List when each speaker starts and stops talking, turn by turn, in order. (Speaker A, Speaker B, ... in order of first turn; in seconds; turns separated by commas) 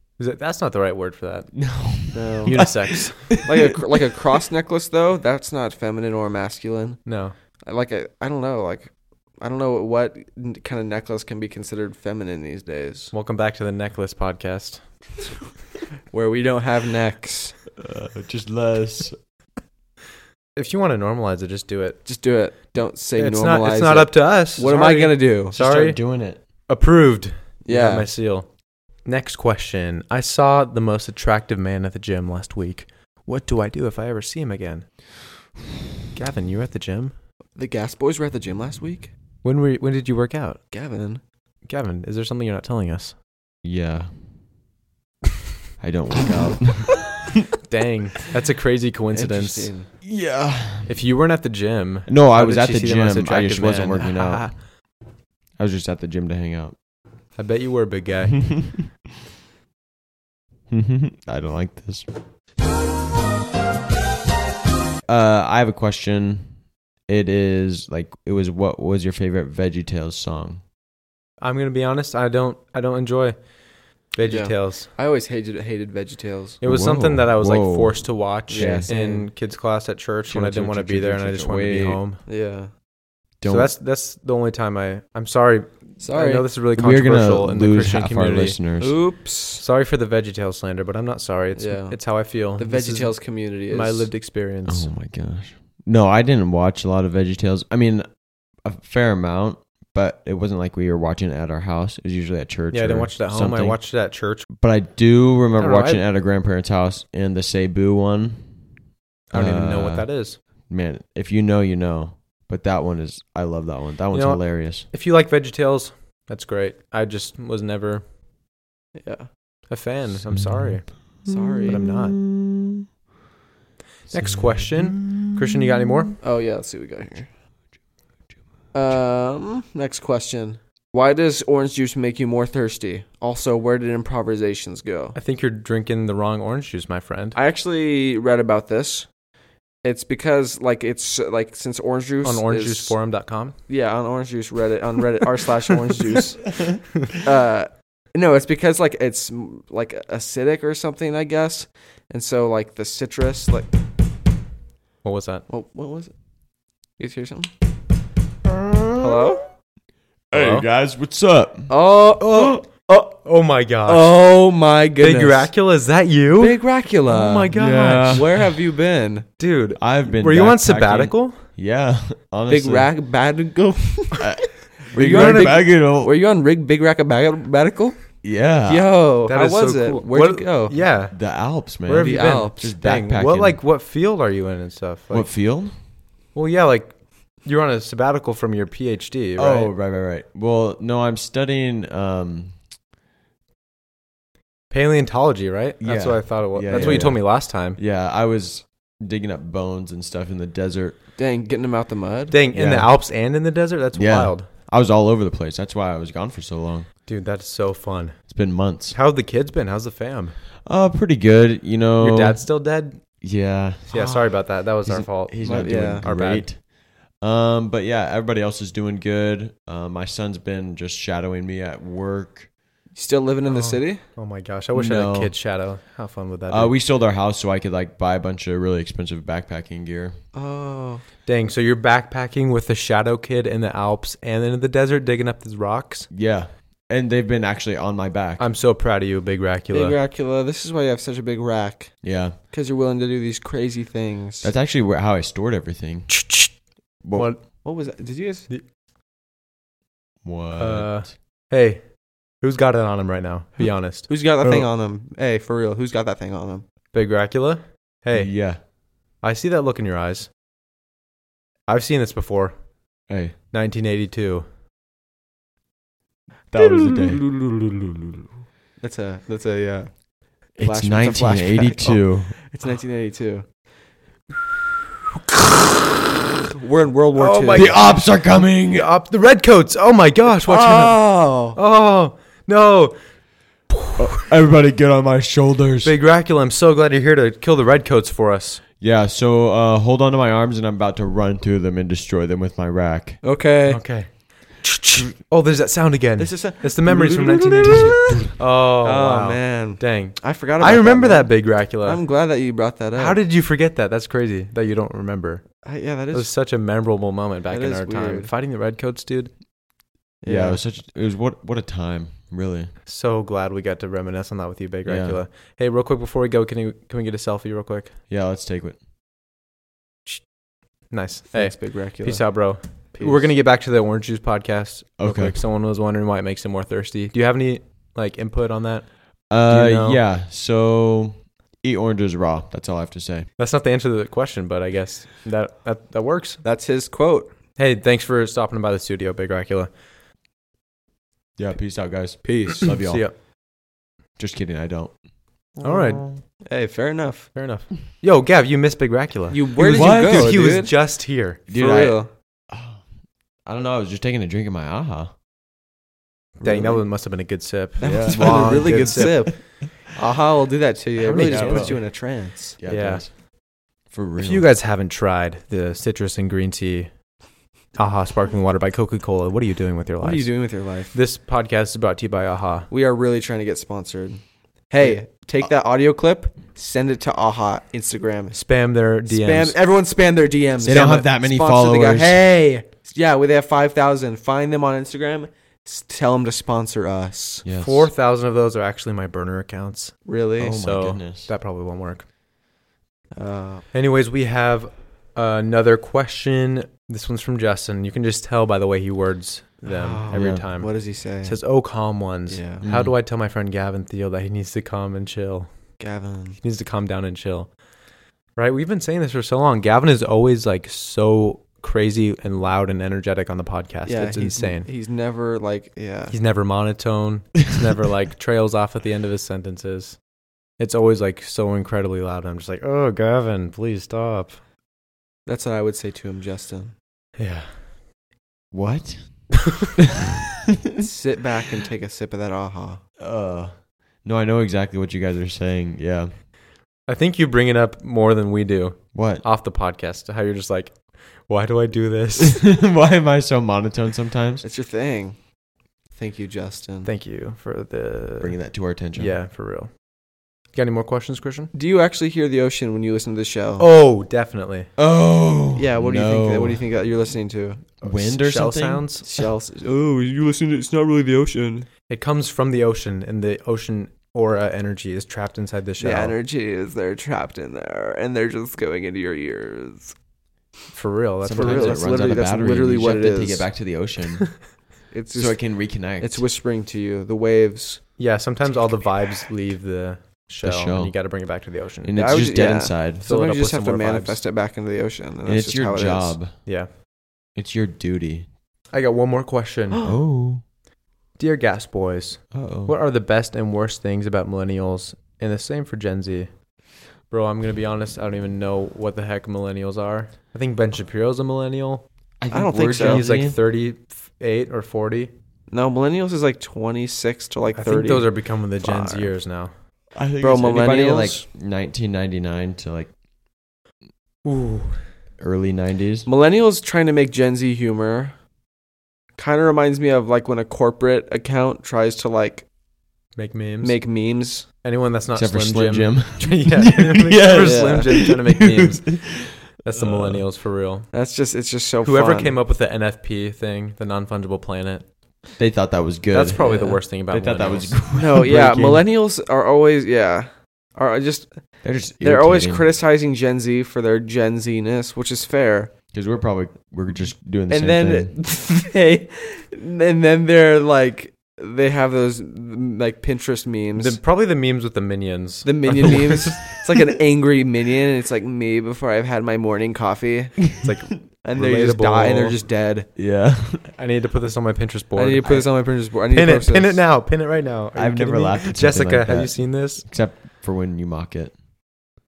Speaker A: 0.2-1.6, Speaker B: 1.6-3.8, Speaker C: 2.1-2.7, Speaker A: 2.5-3.4, Speaker C: 3.3-7.1, Speaker A: 7.1-7.3, Speaker C: 7.6-13.1, Speaker A: 13.1-14.8, Speaker C: 16.1-17.6, Speaker B: 17.8-19.2, Speaker A: 20.6-22.0, Speaker C: 22.1-25.5, Speaker A: 23.2-28.5, Speaker B: 25.5-26.4, Speaker C: 27.6-28.1, Speaker A: 29.0-34.9, Speaker A: 36.1-37.1, Speaker C: 37.6-39.1, Speaker A: 39.4-40.6, Speaker C: 40.7-41.2, Speaker A: 41.7-43.1, Speaker B: 43.6-44.1, Speaker B: 45.8-47.3, Speaker A: 47.7-49.7, Speaker C: 49.1-49.9, Speaker B: 50.0-51.0, Speaker A: 50.9-54.6, Speaker B: 52.1-54.5, Speaker B: 55.6-56.8, Speaker A: 57.4-58.5, Speaker B: 60.7-62.1, Speaker B: 65.0-70.6, Speaker A: 71.4-73.5, Speaker A: 74.1-74.9, Speaker C: 74.2-76.6, Speaker A: 76.6-82.2, Speaker B: 76.6-78.9, Speaker C: 78.5-79.3, Speaker B: 80.3-82.0, Speaker C: 82.3-82.7, Speaker B: 83.4-83.7, Speaker A: 83.5-88.6, Speaker C: 86.0-86.5, Speaker B: 86.7-89.0, Speaker C: 88.8-89.6, Speaker A: 89.6-94.9, Speaker C: 91.6-94.1, Speaker B: 94.7-103.8, Speaker A: 102.7-104.5, Speaker B: 104.5-108.6, Speaker A: 105.6-106.0, Speaker B: 109.3-110.1, Speaker A: 109.3-110.4, Speaker B: 110.7-114.9, Speaker A: 114.1-118.0, Speaker C: 119.0-119.3, Speaker A: 119.7-121.0, Speaker B: 120.3-122.8, Speaker C: 121.3-121.8, Speaker A: 121.7-122.2, Speaker A: 124.1-126.2, Speaker B: 124.1-125.3, Speaker C: 126.2-127.3, Speaker C: 128.7-135.2, Speaker A: 135.2-137.4, Speaker C: 137.3-139.1, Speaker C: 139.8-143.0, Speaker A: 142.2-143.6, Speaker C: 143.7-153.7, Speaker A: 155.0-155.4, Speaker C: 155.5-156.1, Speaker C: 157.0-157.5, Speaker B: 158.5-159.3, Speaker C: 159.0-159.4, Speaker B: 160.3-161.7, Speaker A: 160.3-160.7, Speaker C: 161.7-163.2, Speaker A: 162.2-164.1, Speaker C: 163.9-165.5, Speaker A: 165.0-168.3, Speaker C: 166.4-167.5, Speaker B: 167.5-168.4, Speaker C: 168.1-169.3, Speaker A: 169.4-171.4, Speaker B: 169.8-172.9, Speaker C: 172.5-180.8, Speaker B: 174.2-176.1, Speaker A: 175.0-175.6, Speaker B: 178.2-178.9, Speaker A: 179.3-185.3, Speaker B: 181.1-183.6, Speaker C: 182.0-182.7, Speaker B: 185.1-185.8, Speaker A: 186.3-189.7, Speaker B: 189.4-192.6, Speaker A: 194.7-197.8, Speaker B: 195.8-201.0, Speaker C: 196.7-197.1, Speaker C: 201.2-202.3, Speaker A: 202.3-204.5, Speaker B: 202.5-202.9, Speaker B: 203.9-206.9, Speaker A: 207.1-210.4, Speaker B: 208.3-209.0, Speaker B: 210.6-212.5, Speaker A: 212.0-213.0, Speaker B: 213.2-222.5, Speaker A: 213.9-216.5, Speaker C: 215.4-216.1, Speaker C: 222.9-224.0, Speaker A: 223.5-226.8, Speaker B: 224.7-225.4, Speaker B: 226.5-230.2, Speaker C: 230.3-231.0, Speaker A: 231.3-236.1, Speaker B: 236.1-238.5, Speaker A: 238.4-240.0, Speaker C: 239.7-244.5, Speaker B: 242.0-242.4, Speaker B: 244.4-246.3, Speaker A: 246.2-246.5, Speaker B: 247.0-247.3, Speaker A: 247.2-247.6, Speaker C: 247.6-248.5, Speaker B: 250.2-251.1, Speaker A: 250.6-254.1, Speaker C: 254.1-256.6, Speaker A: 256.9-258.7, Speaker B: 258.1-258.6, Speaker A: 259.2-260.3, Speaker A: 261.7-262.7, Speaker B: 263.1-263.4, Speaker A: 263.5-264.5, Speaker B: 266.5-267.2, Speaker C: 266.9-267.5, Speaker C: 268.8-273.6, Speaker B: 270.6-272.4, Speaker C: 276.6-277.9, Speaker A: 277.2-283.0, Speaker B: 277.5-278.9, Speaker C: 280.5-281.6, Speaker A: 283.7-284.0, Speaker B: 284.0-286.0, Speaker A: 285.8-288.6, Speaker B: 288.8-293.2, Speaker C: 293.2-294.0, Speaker A: 293.7-302.0, Speaker C: 296.2-298.3, Speaker C: 298.8-303.2, Speaker A: 302.9-305.5, Speaker C: 305.6-306.3, Speaker A: 306.1-309.3, Speaker C: 307.5-308.3, Speaker C: 310.2-310.6, Speaker B: 310.3-312.7, Speaker A: 312.9-318.0, Speaker B: 314.9-315.2, Speaker B: 318.1-318.8, Speaker A: 320.1-320.3, Speaker A: 320.9-330.0, Speaker C: 321.3-323.3, Speaker B: 325.0-325.4, Speaker B: 329.3-333.3, Speaker A: 333.4-336.4, Speaker C: 336.4-337.3, Speaker A: 337.6-339.7, Speaker B: 341.4-343.1, Speaker C: 342.2-342.7, Speaker A: 342.6-343.1, Speaker B: 344.2-345.0, Speaker B: 345.5-346.2, Speaker A: 345.6-346.1, Speaker C: 346.5-347.4, Speaker A: 347.3-351.4, Speaker C: 349.3-350.8, Speaker B: 349.7-350.6, Speaker C: 351.4-352.1, Speaker B: 351.5-352.9, Speaker B: 353.4-355.1, Speaker B: 356.4-356.8, Speaker A: 356.4-359.3, Speaker C: 357.8-362.6, Speaker B: 357.8-359.4, Speaker A: 361.0-361.8, Speaker B: 361.1-362.0, Speaker B: 362.6-363.1, Speaker A: 362.6-363.1, Speaker B: 363.9-364.5, Speaker A: 364.2-366.9, Speaker A: 367.8-372.7, Speaker C: 370.0-370.9, Speaker C: 372.7-378.5, Speaker A: 378.3-379.6, Speaker C: 379.1-387.4, Speaker B: 380.6-382.3, Speaker A: 380.7-381.1, Speaker B: 387.4-387.9, Speaker A: 387.5-390.0, Speaker C: 390.1-390.6, Speaker B: 390.4-391.3, Speaker A: 390.6-392.1, Speaker C: 393.1-393.7, Speaker A: 393.7-405.5, Speaker C: 399.7-401.4, Speaker B: 400.1-400.5, Speaker C: 402.3-402.6, Speaker B: 402.6-403.0, Speaker C: 405.8-406.4, Speaker A: 406.4-407.5, Speaker A: 408.4-414.7, Speaker C: 413.9-416.1, Speaker A: 416.1-420.0, Speaker A: 420.6-424.4, Speaker C: 425.3-426.7, Speaker A: 427.2-427.7, Speaker B: 428.5-429.4, Speaker C: 430.8-432.8, Speaker B: 433.0-436.1, Speaker A: 436.9-442.5, Speaker B: 438.9-439.2, Speaker B: 442.2-444.4, Speaker C: 444.4-445.2, Speaker C: 445.9-446.9, Speaker A: 446.9-449.8, Speaker B: 448.2-449.1, Speaker A: 450.5-451.5, Speaker C: 451.5-453.7, Speaker A: 453.6-454.7, Speaker B: 454.8-456.6, Speaker C: 455.6-457.8, Speaker B: 457.8-459.3, Speaker A: 457.9-459.1, Speaker C: 459.1-461.7, Speaker A: 461.9-466.2, Speaker C: 465.8-469.9, Speaker A: 470.7-472.4, Speaker B: 471.2-474.5, Speaker C: 471.4-473.5, Speaker C: 474.9-478.0, Speaker B: 475.1-476.3, Speaker A: 478.0-482.0, Speaker B: 480.4-481.3, Speaker B: 481.8-483.1, Speaker C: 482.0-486.2, Speaker A: 483.0-484.2, Speaker B: 485.2-486.4, Speaker A: 486.4-486.7, Speaker B: 487.4-488.3, Speaker A: 488.7-489.8, Speaker B: 489.8-490.4, Speaker A: 491.2-496.3, Speaker B: 492.3-492.7, Speaker A: 497.1-501.9, Speaker B: 502.2-503.4, Speaker C: 502.3-503.1, Speaker A: 502.8-505.1, Speaker C: 505.5-509.1, Speaker A: 507.5-509.5, Speaker B: 509.9-512.9, Speaker C: 510.2-511.2, Speaker A: 514.2-514.9, Speaker B: 515.2-516.1, Speaker C: 516.1-518.1, Speaker C: 519.2-522.5, Speaker A: 523.2-523.8, Speaker C: 523.6-524.5, Speaker A: 524.6-530.9, Speaker B: 525.1-530.2, Speaker C: 527.4-527.9, Speaker C: 530.9-532.4, Speaker A: 531.8-534.9, Speaker B: 535.4-538.8, Speaker A: 536.1-537.8, Speaker C: 536.4-536.8, Speaker C: 538.0-545.7, Speaker B: 541.6-542.6, Speaker B: 545.9-548.2, Speaker C: 547.5-554.0, Speaker A: 553.8-556.5, Speaker C: 555.4-560.6, Speaker A: 560.6-562.4, Speaker C: 561.1-562.9, Speaker B: 563.0-563.7, Speaker A: 563.7-569.8, Speaker C: 565.0-566.8, Speaker B: 567.8-571.4